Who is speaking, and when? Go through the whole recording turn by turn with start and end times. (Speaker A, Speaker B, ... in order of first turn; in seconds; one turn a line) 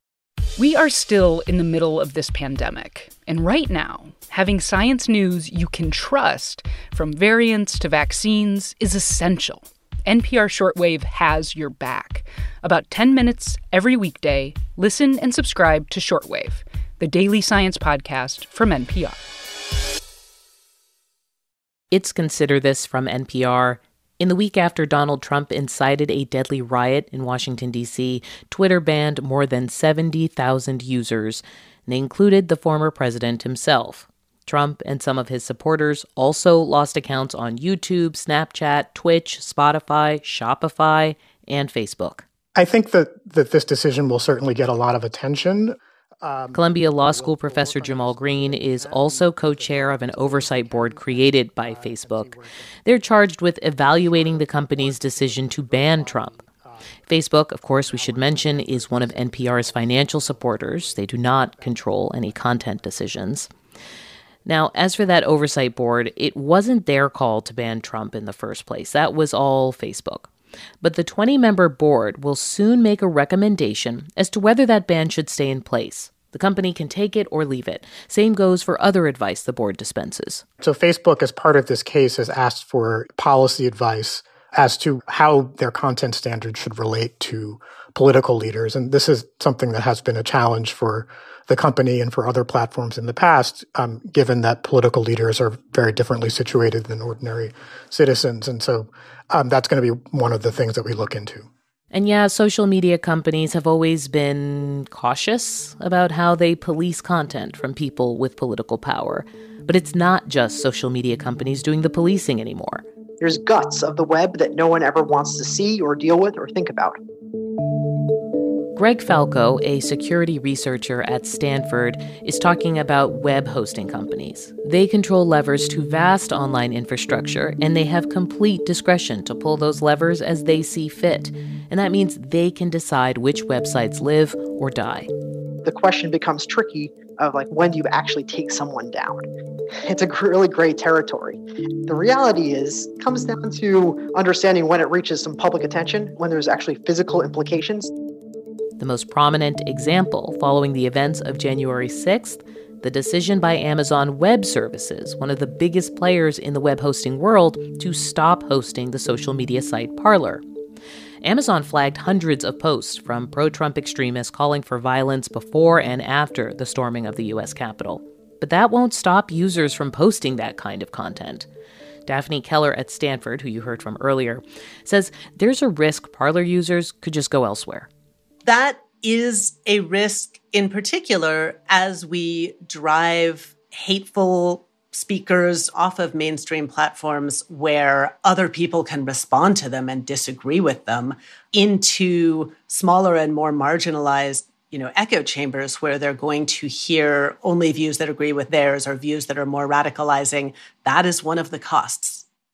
Speaker A: 0.6-19.2
Speaker B: 21.9-42.2
Speaker C: 42.5-52.7
Speaker B: 46.5-52.3
Speaker B: 52.8-56.3
Speaker C: 53.9-56.9
Speaker B: 57.1-63.5
Speaker C: 57.8-63.0
Speaker B: 64.5-70.3
Speaker B: 70.8-80.4
Speaker C: 80.6-101.5
Speaker B: 101.9-112.8
Speaker D: 113.2-117.0
Speaker B: 118.8-135.1
Speaker D: 135.6-139.3
Speaker D: 139.8-147.9
Speaker B: 148.8-160.4
Speaker B: 161.2-171.5
Speaker B: 172.1-177.9
Speaker E: 178.4-202.2